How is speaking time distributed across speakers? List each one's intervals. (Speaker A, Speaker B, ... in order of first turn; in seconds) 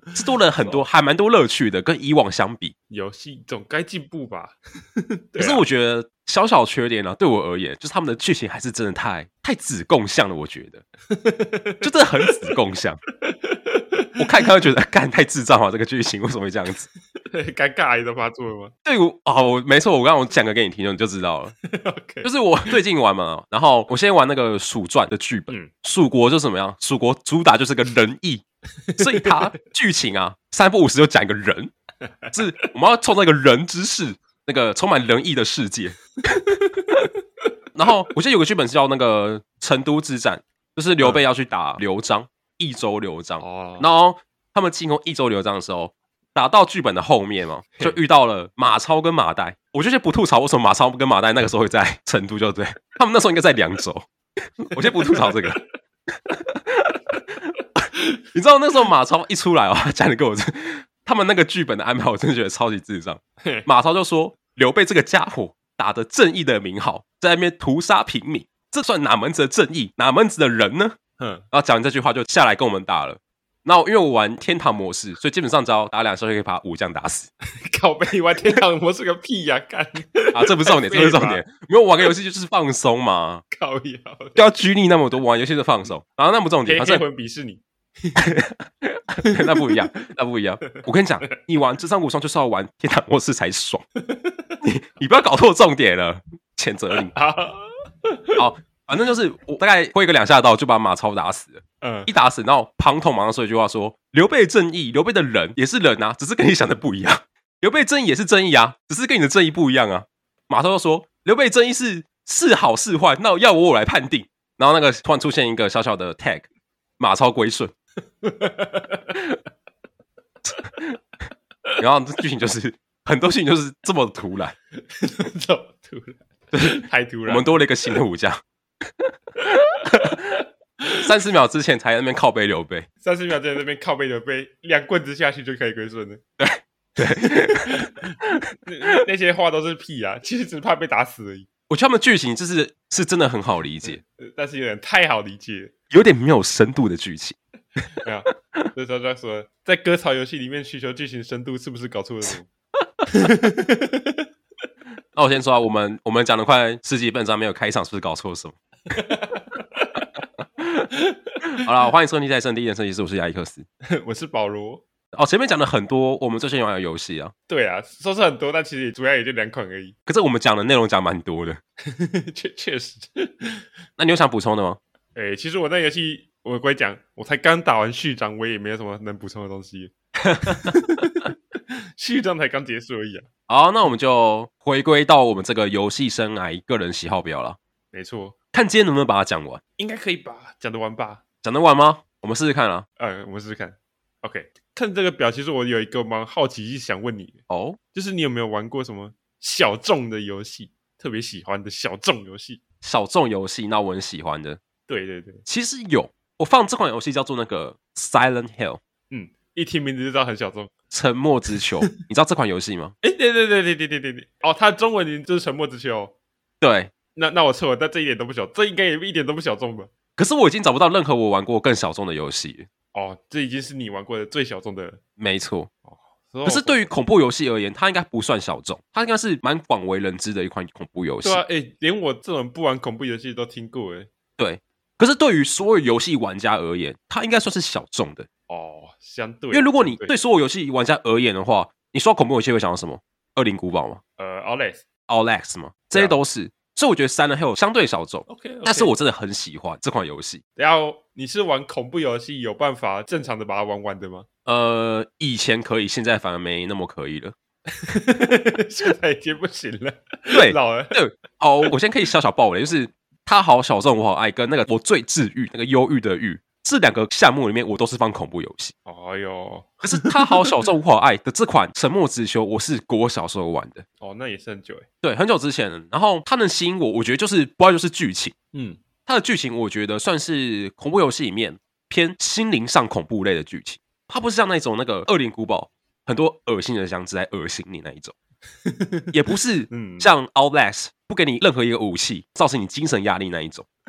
Speaker A: 0.1-2.7, 5.4-10.8, 11.8-13.0, 14.2-16.9, 18.8-21.5, 22.2-28.4, 29.0-31.7, 32.3-36.4, 37.7-54.0, 54.6-55.6, 56.3-57.5, 58.3-71.0, 71.5-77.3, 80.3-83.4, 84.3-87.0, 88.2-93.8, 94.6-97.1, 98.4-116.5, 117.0-117.7, 121.8-124.5, 127.3-128.4, 129.0-130.3, 131.0-132.9, 136.4-138.4, 141.7-144.0, 145.9-147.4, 155.2-158.6, 161.5-163.7, 165.1-167.3, 170.1-171.6, 174.0-174.8, 180.3-181.0, 183.5-187.6, 188.5-189.6, 191.4-192.8, 197.5-197.8, 202.8-204.6, 205.4-208.8, 210.9-212.9, 216.6-216.9, 220.2-222.7, 225.2-225.7, 226.4-231.4, 234.4-238.3, 239.5-244.0, 245.1-250.4, 254.4-257.3, 260.3-268.7, 269.8-273.8, 275.0-278.3, 279.1-288.1, 289.1-293.6
Speaker B: 0.6-0.8, 2.9-5.6, 11.1-12.5, 13.3-14.1, 17.3-18.7, 21.6-22.8, 28.9-29.4, 32.2-32.6, 36.7-37.0, 43.4-43.9, 54.8-55.4, 71.2-71.4, 77.6-81.4, 83.5-84.4, 86.6-88.3, 89.2-89.7, 97.1-98.4, 101.8-102.1, 118.2-119.2, 124.9-127.6, 133.0-136.2, 137.0-141.5, 143.8-145.7, 148.0-152.5, 153.1-154.2, 158.9-160.1, 160.9-161.6, 163.9-164.8, 167.5-169.9, 171.8-173.6, 175.1-181.3, 182.0-183.3, 187.9-188.3, 189.8-191.2, 193.0-197.4, 197.9-202.6, 204.9-205.4, 209.1-210.7, 213.0-216.1, 217.1-219.9, 222.9-225.0, 225.9-226.9, 231.2-234.1, 238.5-240.1, 244.2-244.8, 248.3-248.9, 250.6-254.2, 257.8-261.0, 268.9-270.6, 274.0-274.9, 278.5-278.8, 288.6-289.1, 289.7-290.1